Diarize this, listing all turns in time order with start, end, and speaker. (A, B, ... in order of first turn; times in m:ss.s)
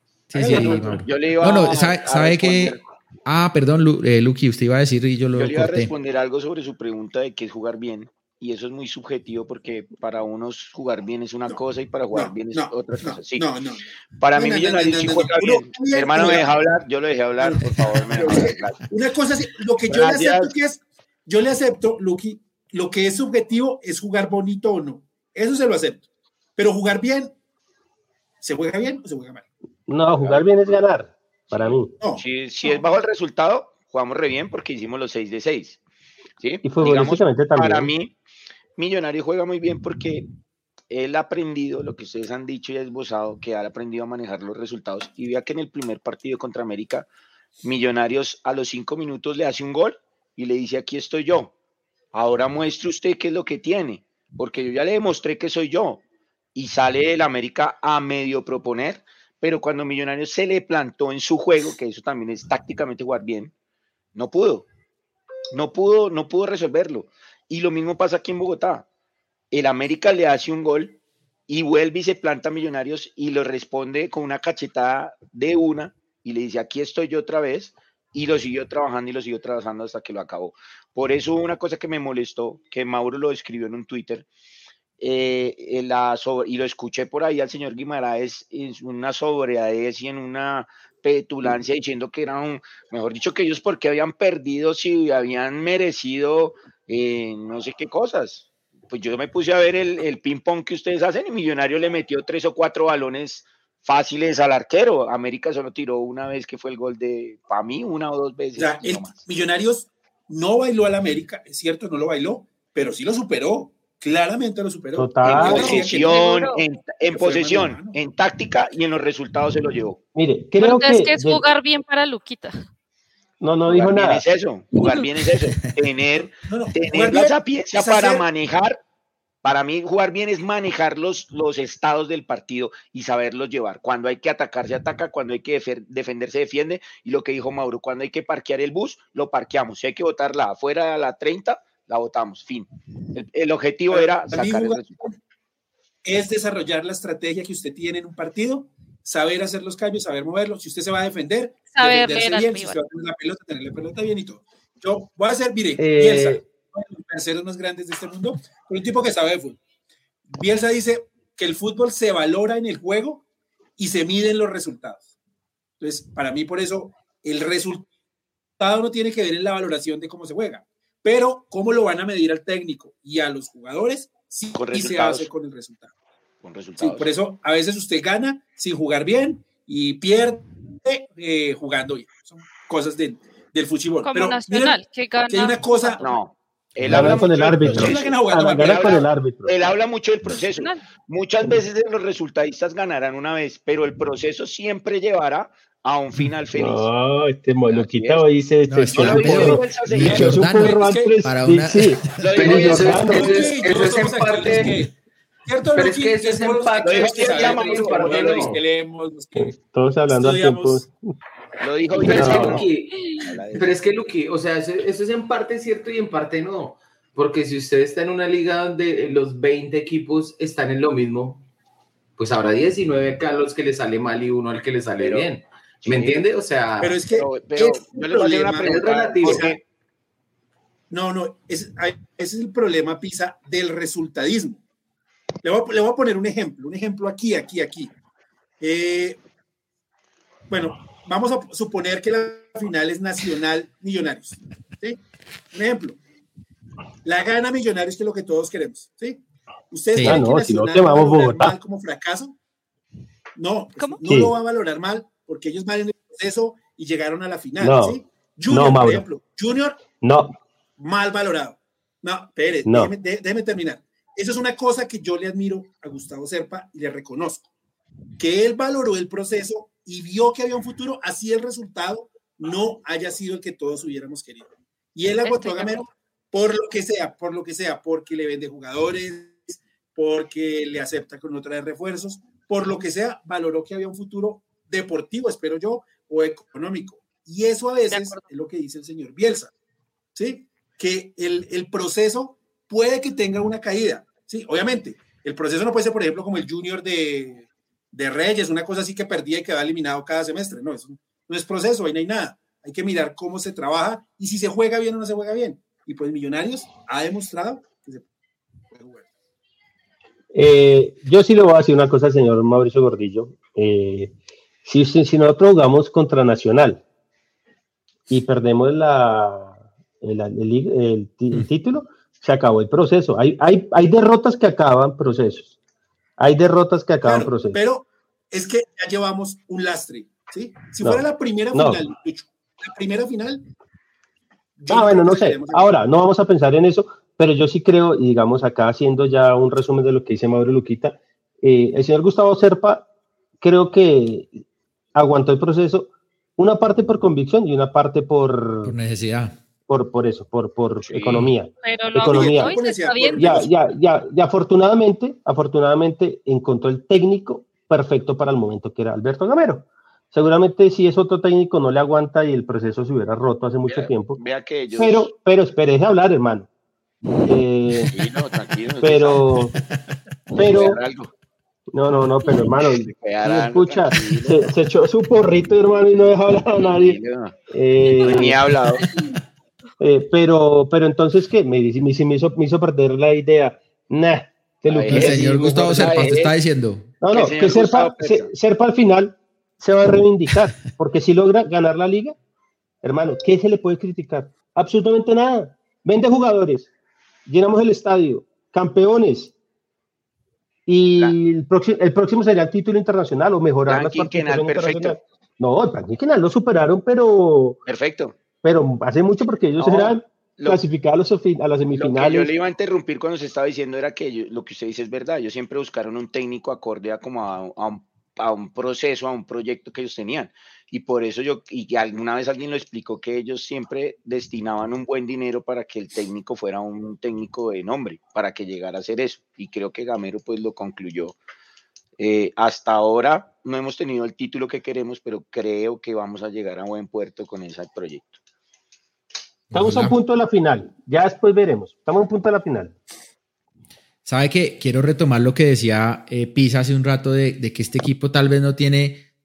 0:00.3-0:05.9 A
0:00.3-0:01.0 B
0:00.5-0:02.8 C
0:05.3-0:13.4 C
0:12.1-0:16.5 B
0:14.2-0:18.9 C
0:17.4-0:26.0 B
0:19.9-0:20.5 C
0:26.6-0:27.3 B
0:28.4-0:29.4 B
0:29.9-0:31.9 D
0:30.2-0:30.5 C
0:31.5-0:35.8 C
0:36.4-0:38.1 C
0:36.6-0:37.9 D
0:38.8-0:40.3 C
0:40.9-0:47.1 C
0:47.6-0:51.5 C
0:52.1-0:56.0 C
0:56.5-1:03.5 C
1:04.1-1:04.7 C
1:05.5-1:08.9 C
1:09.5-1:24.3 C
1:25.0-1:49.3 C
1:48.6-1:56.3 B
1:55.0-1:55.7 D
1:55.2-2:00.0 C
1:55.4-1:56.6 E
1:57.1-1:58.0 B
2:00.1-2:01.4 D
2:00.6-2:02.6 E
2:03.4-2:04.2 D
2:03.7-2:08.8 C
2:06.5-2:08.2 B
2:09.4-2:25.1 C
2:23.9-2:25.1 B
2:26.0-2:39.6 B
2:31.7-2:32.8 E
2:35.8-2:36.4 D
2:40.3-2:43.2 B
2:43.8-2:45.0 B
2:45.8-2:47.9 B
2:48.6-2:55.9 B
2:54.5-2:55.3 C
2:56.4-2:57.1 C
2:56.8-3:04.8 B
3:04.0-3:06.2 E
3:05.3-3:06.0 B
3:06.0-3:16.9 C
3:06.8-3:09.0 B
3:06.8-3:09.5 D
3:10.5-3:10.8 E
3:16.5-3:23.5 D
3:17.7-3:18.3 C
3:18.7-3:22.4 A
3:18.9-3:20.4 C
3:20.0-3:21.2 B
3:22.2-3:23.5 C
3:22.3-3:24.8 F
3:22.4-3:24.9 B
3:25.4-3:29.5 B
3:25.8-3:28.6 F
3:26.8-3:28.5 C
3:29.3-3:30.9 D
3:30.1-3:30.8 B
3:31.6-3:33.8 C
3:32.0-3:41.4 F
3:32.1-3:32.6 D
3:33.0-3:33.2 E
3:42.2-3:47.0 F
3:45.0-3:45.3 C
3:45.8-3:46.2 C
3:46.8-3:49.6 B
3:47.1-3:49.6 C
3:48.6-3:49.6 F
3:50.9-3:54.6 B
3:55.4-3:57.9 B
3:58.6-3:59.2 B
4:00.5-4:05.0 B
4:05.5-4:06.0 B
4:07.0-4:12.4 B
4:09.9-4:10.2 A
4:10.0-4:11.5 D
4:13.4-4:19.8 B
4:14.0-4:14.3 D
4:17.6-4:19.0 D
4:20.0-4:20.3 D
4:20.8-4:27.4 B
4:22.6-4:22.9 D
4:28.2-4:49.5 B
4:35.2-4:35.9 E
4:47.9-4:48.2 E
4:50.1-5:08.0 B
5:08.7-5:09.0 B
5:10.3-5:14.1 D
5:14.6-5:16.8 D
5:18.1-5:25.5 D
5:26.2-5:27.6 D
5:27.0-5:33.5 B
5:30.8-5:31.8 D
5:34.6-5:35.8 B
5:34.7-5:42.9 D
5:43.4-5:44.3 D
5:44.9-5:48.7 D
5:48.6-5:49.4 A
5:49.7-5:52.6 D
5:50.9-5:51.2 C
5:51.6-5:53.4 E
5:52.0-5:53.5 B
5:53.2-6:04.2 D
6:03.7-6:05.1 C
6:04.7-6:06.5 D
6:07.2-6:07.9 D
6:07.9-6:09.2 C
6:08.8-6:09.5 D
6:10.4-6:10.8 D
6:10.4-6:11.1 C
6:11.7-6:17.0 D
6:12.6-6:14.5 C
6:16.6-6:17.3 C
6:17.5-6:18.4 D
6:17.9-6:19.0 C
6:19.8-6:26.0 D
6:24.7-6:26.3 C
6:24.9-6:26.9 A
6:27.0-6:32.1 D
6:27.1-6:28.3 C
6:32.8-6:36.7 D
6:37.3-6:39.3 D
6:40.7-6:47.6 D
6:43.7-6:45.0 C
6:47.6-6:48.2 C
6:48.4-6:52.3 D
6:49.6-6:50.6 C
6:51.7-7:11.2 C
7:12.0-7:18.2 C
7:19.5-7:20.0 A
7:19.5-7:22.7 D
7:24.0-7:29.0 A